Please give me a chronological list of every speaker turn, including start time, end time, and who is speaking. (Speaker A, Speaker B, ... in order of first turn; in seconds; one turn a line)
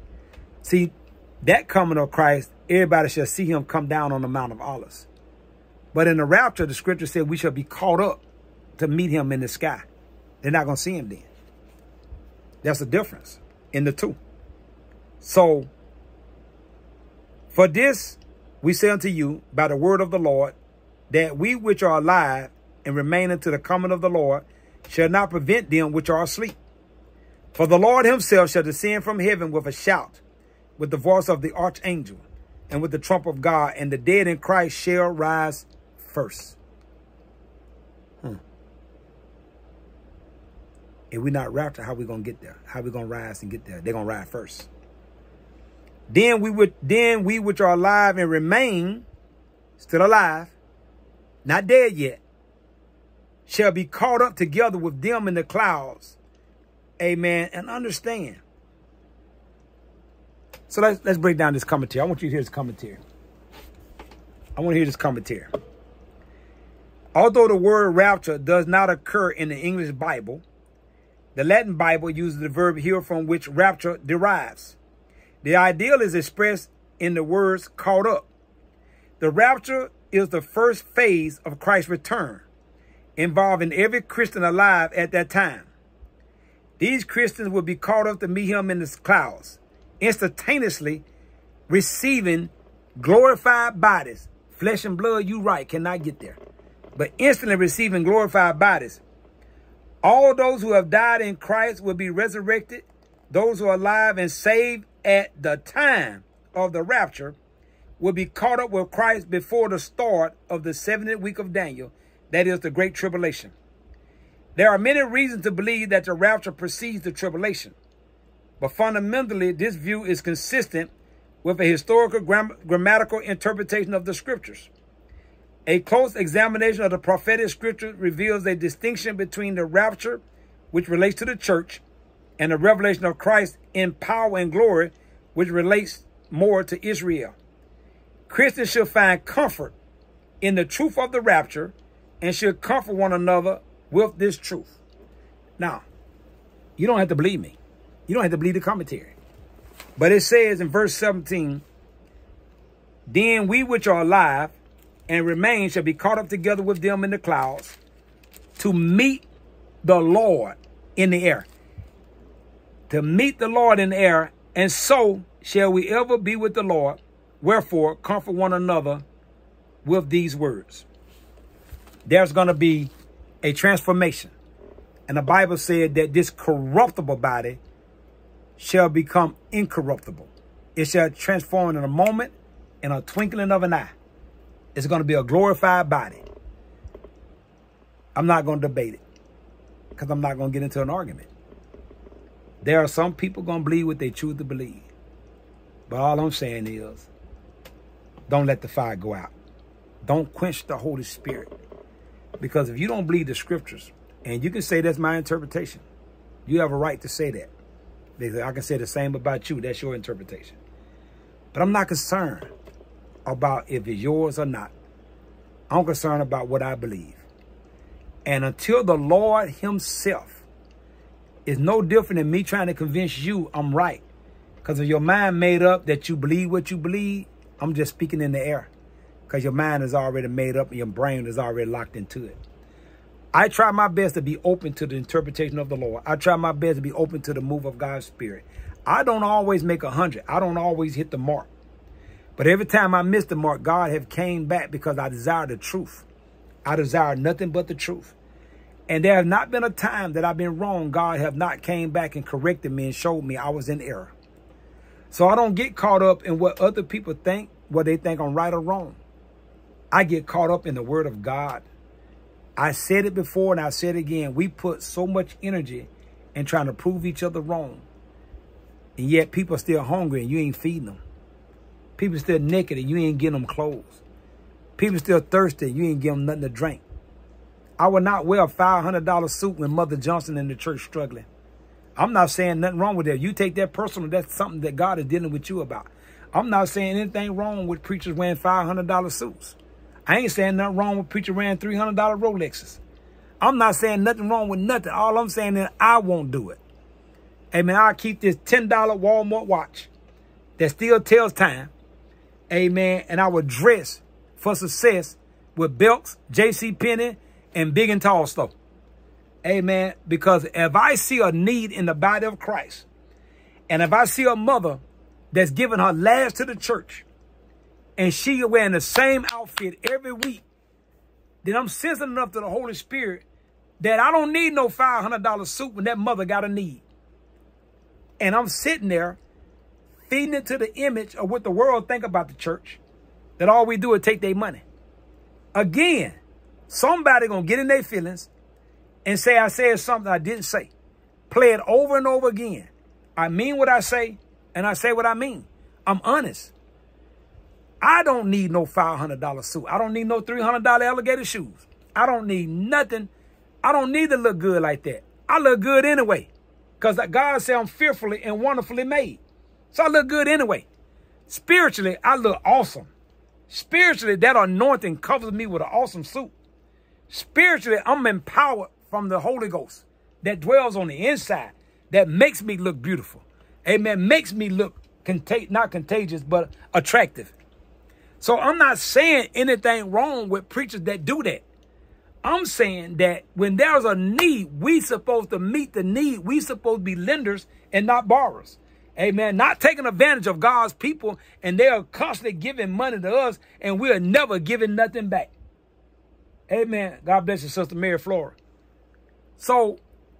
Speaker A: 0.6-5.1
Speaker A: 5.9-8.2
Speaker A: 8.8-9.9
Speaker A: 10.4-11.3
Speaker A: 12.6-14.2
Speaker A: 15.2-15.7
Speaker A: 17.5-20.6
Speaker A: 21.1-26.6
Speaker A: 27.5-30.2
Speaker A: 30.8-36.6
Speaker A: 41.1-44.7
Speaker A: 46.1-49.0
Speaker A: 49.8-50.5
Speaker A: 51.4-52.2
Speaker A: 53.5-56.2
Speaker A: 57.0-58.4
Speaker A: 60.7-63.0
Speaker A: 64.5-65.5
Speaker A: 67.1-70.4
Speaker A: 71.3-74.8
Speaker A: 75.4-78.3
Speaker A: 79.2-82.4
Speaker A: 83.2-85.7
Speaker A: 86.8-91.0
Speaker A: 91.7-96.4
Speaker A: 97.0-99.0
Speaker A: 100.0-107.4
Speaker A: 108.0-113.5
Speaker A: 114.5-117.7
Speaker A: 118.6-120.9
Speaker A: 121.4-124.7
Speaker A: 125.7-131.8
Speaker A: 132.4-137.4
Speaker A: 138.3-139.7
Speaker A: 140.4-144.8
Speaker A: 145.6-145.8
Speaker A: 146.8-149.1
Speaker A: 150.0-151.6
Speaker A: 153.1-154.6
Speaker A: 155.1-157.8
Speaker A: 158.6-159.2
Speaker A: 159.8-161.5
Speaker A: 162.9-169.0
Speaker A: 169.8-170.9
Speaker A: 172.0-172.9
Speaker A: 173.4-174.3
Speaker A: 175.1-177.6
Speaker A: 178.6-183.9
Speaker A: 184.7-186.2
Speaker A: 188.1-189.0
Speaker A: 189.9-191.3
Speaker A: 192.6-194.9
Speaker A: 195.9-197.1
Speaker A: 198.3-199.3
Speaker A: 200.0-201.6
Speaker A: 202.4-205.8
Speaker A: 206.4-207.5
Speaker A: 208.2-210.6
Speaker A: 211.5-212.5
Speaker A: 213.2-214.7
Speaker A: 215.7-217.2
Speaker A: 218.2-220.4
Speaker A: 221.4-224.0
Speaker A: 224.6-228.7
Speaker A: 229.3-232.4
Speaker A: 233.3-241.5
Speaker A: 242.4-246.0
Speaker A: 246.6-248.1
Speaker A: 248.9-254.1
Speaker A: 255.1-259.0
Speaker A: 259.9-261.6
Speaker A: 262.6-267.9
Speaker A: 269.0-271.0
Speaker A: 272.0-274.0
Speaker A: 274.8-276.8
Speaker A: 277.8-281.3
Speaker A: 281.9-289.6
Speaker A: 290.1-292.8
Speaker A: 293.4-296.6
Speaker A: 297.5-299.9
Speaker A: 300.6-301.7
Speaker A: 302.5-308.5
Speaker A: 309.4-312.9
Speaker A: 313.7-314.8
Speaker A: 315.3-317.1
Speaker A: 318.0-320.4
Speaker A: 321.4-323.2
Speaker A: 323.8-326.8
Speaker A: 328.2-329.2
Speaker A: 330.1-332.8
Speaker A: 333.4-334.6
Speaker A: 335.5-336.2
Speaker A: 336.7-338.3
Speaker A: 339.0-340.7
Speaker A: 341.3-346.5
Speaker A: 347.8-353.1
Speaker A: 353.6-360.6
Speaker A: 361.3-362.9
Speaker A: 363.5-366.3
Speaker A: 367.1-377.3
Speaker A: 378.2-381.4
Speaker A: 382.2-395.3
Speaker A: 396.5-398.4
Speaker A: 399.4-399.8